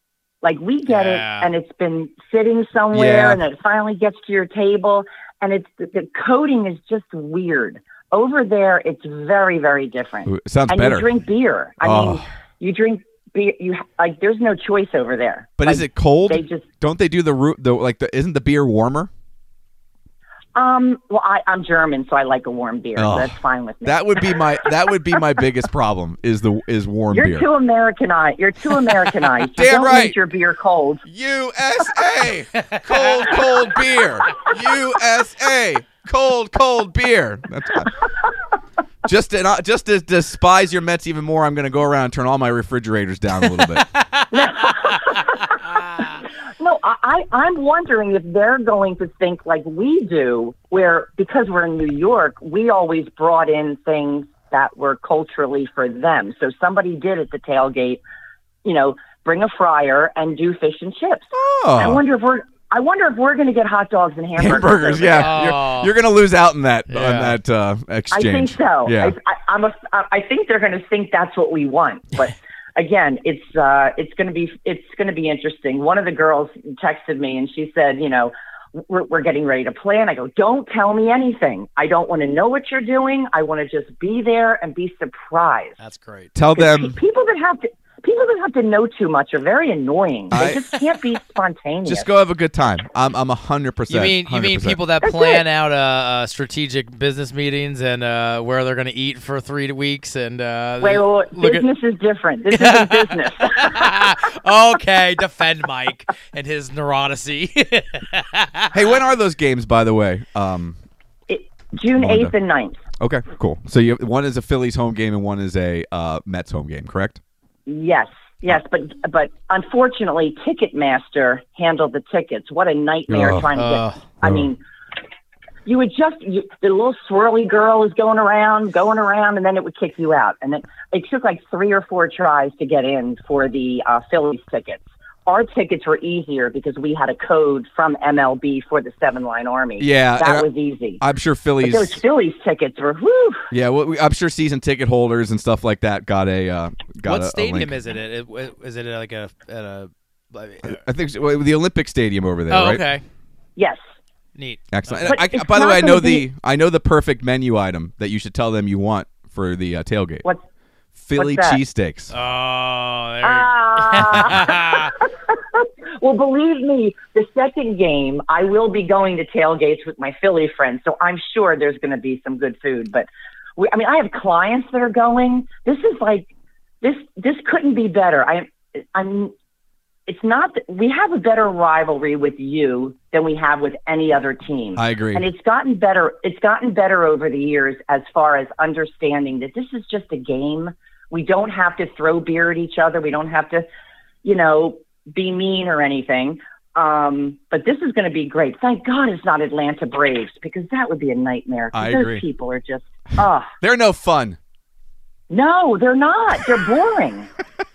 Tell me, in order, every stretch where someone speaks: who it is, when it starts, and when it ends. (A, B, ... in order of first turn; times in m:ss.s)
0:00.4-0:16.6 A
0:00.9-0:01.5 B
0:02.9-0:03.4 C
0:10.2-0:11.1 C
0:11.8-0:12.2 C
0:15.6-0:19.1 C
0:20.5-0:24.7 A
0:23.0-0:23.3 C
0:23.8-0:27.4 C
0:27.1-0:31.0 A
0:29.5-0:30.1 C
0:31.0-0:38.0 C
0:32.5-0:33.4 B
0:39.0-0:43.9 C
0:43.9-0:46.2 B
0:44.3-0:58.0 A
0:58.6-1:05.3 A
1:01.3-1:02.0 C
1:04.4-1:09.2 C
1:05.1-1:05.9 B
1:06.9-1:07.4 B
1:08.1-1:25.8 A
1:25.8-1:26.3 B
1:26.3-1:27.0 C
1:26.5-1:32.1 A
1:30.3-1:30.6 C
1:31.8-1:34.8 C
1:33.9-1:41.6 B
1:35.0-1:35.4 A
1:40.8-1:44.0 A
1:42.5-1:48.7 B
1:48.7-1:50.8 C
1:51.3-1:52.8 A
1:52.0-1:52.3 C
1:53.0-1:57.2 C
1:57.7-2:04.6 A
2:03.1-2:03.5 C
2:03.5-2:04.0 B
2:05.6-2:21.0 A
2:19.8-2:20.5 C
2:21.0-2:22.0 C
2:21.6-2:23.5 A
2:23.5-2:27.7 C
2:27.0-2:30.8 B
2:30.6-2:32.8 C
2:32.5-2:33.0 B
2:34.4-2:35.1 B
2:34.7-2:40.2 C
2:35.0-2:36.2 A
2:41.0-2:42.1 C
2:41.2-2:41.6 A
2:42.1-2:44.9 B
2:43.2-2:56.3 A
2:56.8-2:59.3 A
3:00.1-3:13.6 A
3:04.8-3:05.2 C
3:14.2-3:23.5 A
3:21.7-3:22.2 C
3:23.6-3:24.4 C
3:25.3-3:27.3 A